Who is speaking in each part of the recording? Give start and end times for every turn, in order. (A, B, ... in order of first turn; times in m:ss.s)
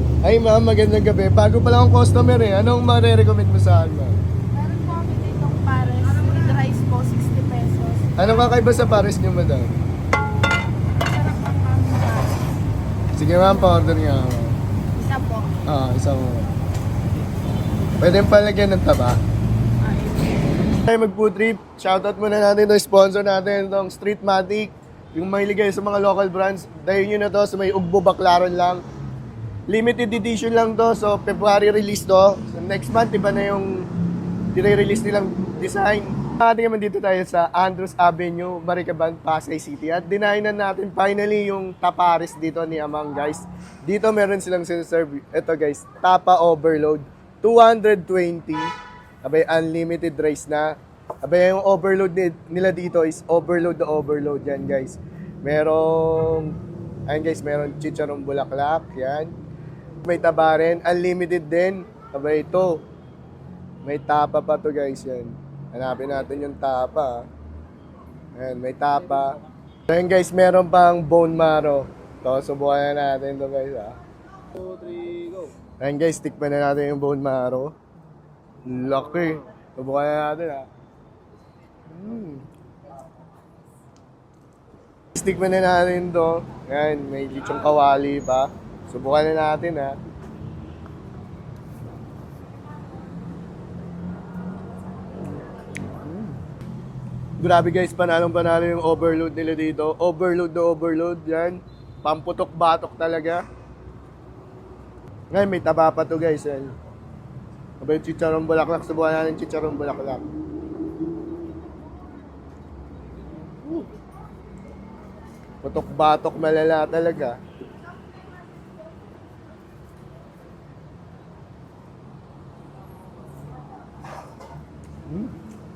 0:00.2-0:04.2 A
0:04.5-0:08.1 B
0:08.2-0:09.8 A
0:11.0-0:12.4 B
0:13.2-0:14.6 A
0:13.4-0:13.9 B
0:15.0-0:15.5 B
0:15.7-0:16.5 A
0:18.0-0:19.2 A
0:19.8-0:20.5 B
0:20.8-0:28.8 A
0:29.7-0:33.7 A
0:34.5-0:48.7 A
0:49.2-0:56.6 A
0:57.1-0:59.3 A
1:00.0-1:02.8 A
1:03.8-1:07.2 A
1:08.4-1:09.3 A
1:09.9-1:14.0 A
1:15.8-1:17.7 A
1:18.6-1:20.7 A
1:21.9-1:22.4 A
1:25.1-1:30.0 A
1:36.0-1:36.3 A
1:37.4-1:43.4 A
1:45.3-1:46.7 A
1:47.8-1:50.2 A
1:55.6-1:57.4 A